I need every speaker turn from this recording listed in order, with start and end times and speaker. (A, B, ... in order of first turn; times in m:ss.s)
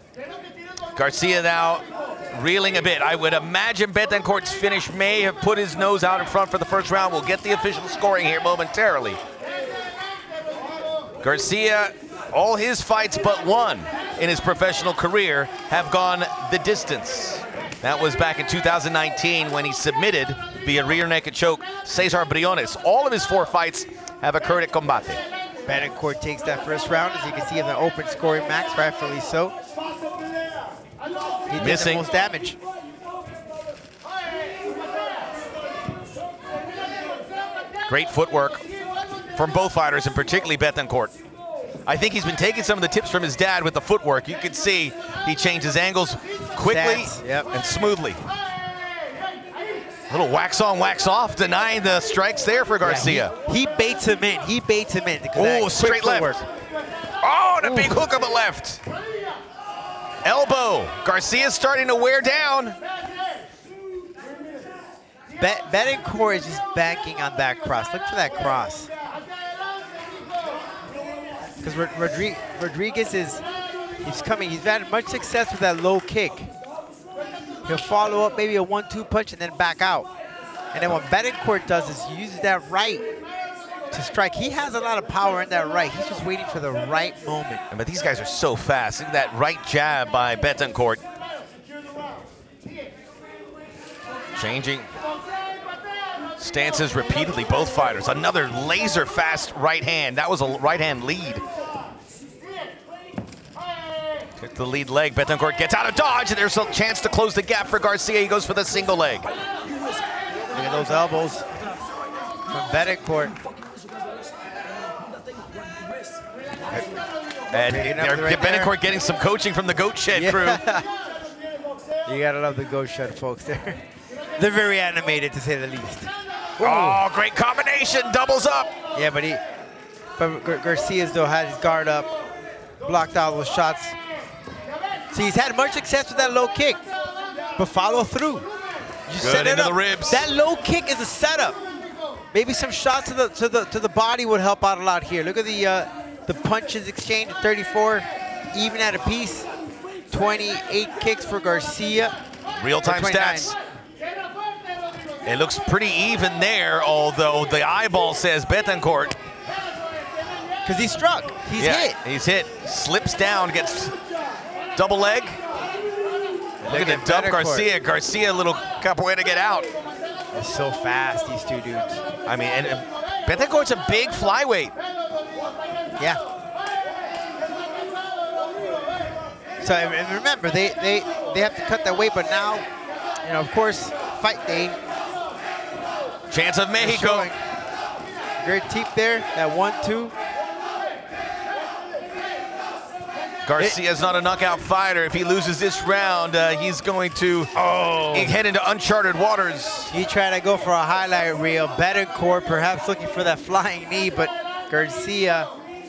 0:00.9-0:09.2 A
0:11.2-0:25.2 A
0:25.6-0:29.5 B
0:31.5-0:32.6 B
0:31.6-0:32.0 A
0:37.9-0:38.6 A
0:39.3-0:41.1 A
0:41.8-0:48.2 A
0:46.6-0:47.5 B
0:50.1-0:53.3 A
0:52.8-0:56.4 B
0:55.4-0:56.4 A
0:57.2-0:58.8 A
0:57.6-0:58.0 B
1:00.2-1:02.8 A
1:05.4-1:08.9 B
1:11.6-1:13.4 B
1:14.0-1:16.5 B
1:17.6-1:20.1 B
1:20.7-1:23.1 B
1:23.9-1:27.6 B
1:27.7-1:31.0 A
1:34.3-1:34.9 A
1:36.4-1:41.4 A
1:44.4-1:49.3 A
1:50.5-1:51.4 B
1:52.5-1:53.4 B
1:57.5-2:00.6 A
1:57.6-1:58.7 B
2:00.1-2:00.8 B
2:02.0-2:03.8 B
2:04.4-2:07.0 B
2:06.6-2:08.7 A
2:08.9-2:09.4 B
2:10.2-2:12.1 B
2:12.8-2:14.0 B
2:15.1-2:16.8 B
2:17.6-2:18.5 B
2:19.1-2:21.6 B
2:19.2-2:20.2 A
2:22.3-2:29.5 B
2:30.1-2:32.2 B
2:32.6-2:33.6 A
2:32.8-2:33.5 B
2:35.2-2:39.2 A
2:40.6-2:42.0 B
2:41.6-2:44.0 A
2:44.8-2:45.4 A
2:46.6-2:47.7 B
2:46.6-2:49.7 A
2:50.3-2:52.0 B
2:52.2-2:54.7 A
2:59.6-3:02.7 B
3:03.2-3:04.8 B
3:06.3-3:07.3 A
3:06.8-3:07.4 B
3:08.4-3:10.1 B
3:13.4-3:17.5 A
3:17.5-3:18.3 B
3:18.1-3:19.9 A
3:19.9-3:25.5 B